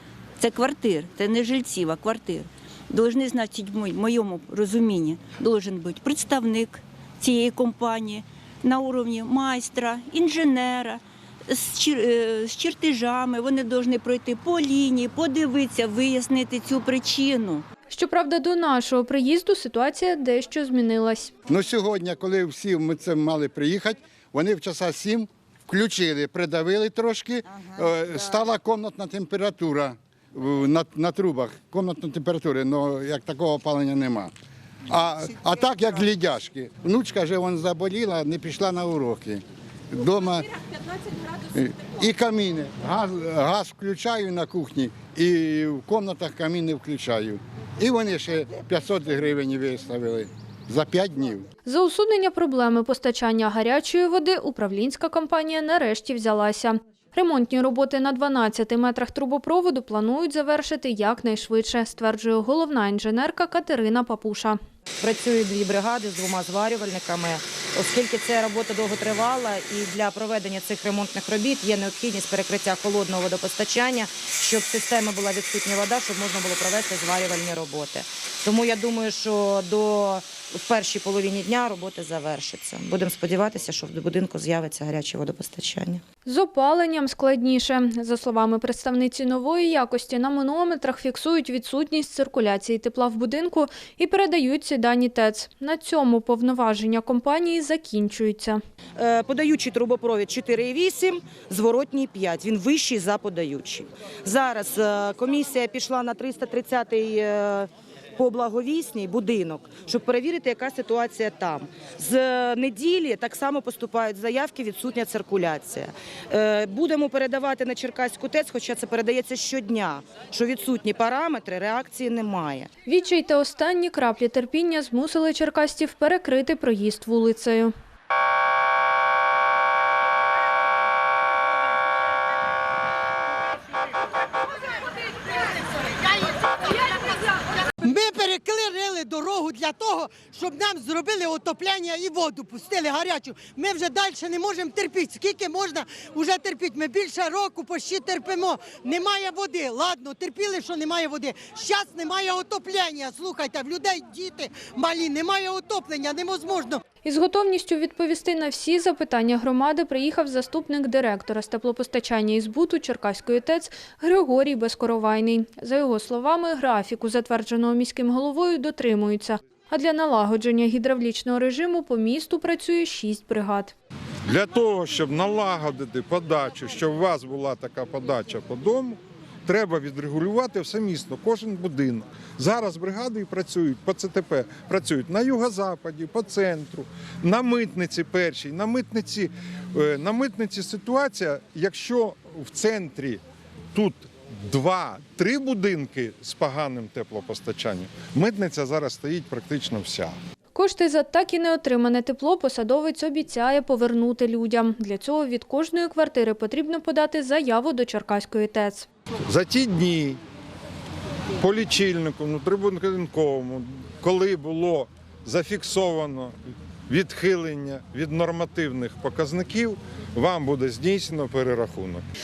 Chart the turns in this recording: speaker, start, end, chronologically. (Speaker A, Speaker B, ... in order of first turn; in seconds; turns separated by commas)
Speaker A: 0.4-17.6, Speaker B: 17.9-21.3, Speaker C: 21.5-34.3, Speaker C: 34.9-40.6, Speaker C: 41.4-51.5, Speaker B: 51.6-64.6, Speaker D: 65.0-86.0, Speaker B: 86.2-98.6, Speaker D: 99.0-122.7, Speaker B: 122.8-127.7, Speaker E: 137.8-156.8, Speaker B: 157.0-173.7, Speaker F: 174.2-193.2, Speaker F: 193.7-200.2, Speaker B: 200.5-208.9, Speaker F: 209.3-210.2, Speaker F: 211.4-216.3, Speaker F: 216.9-222.1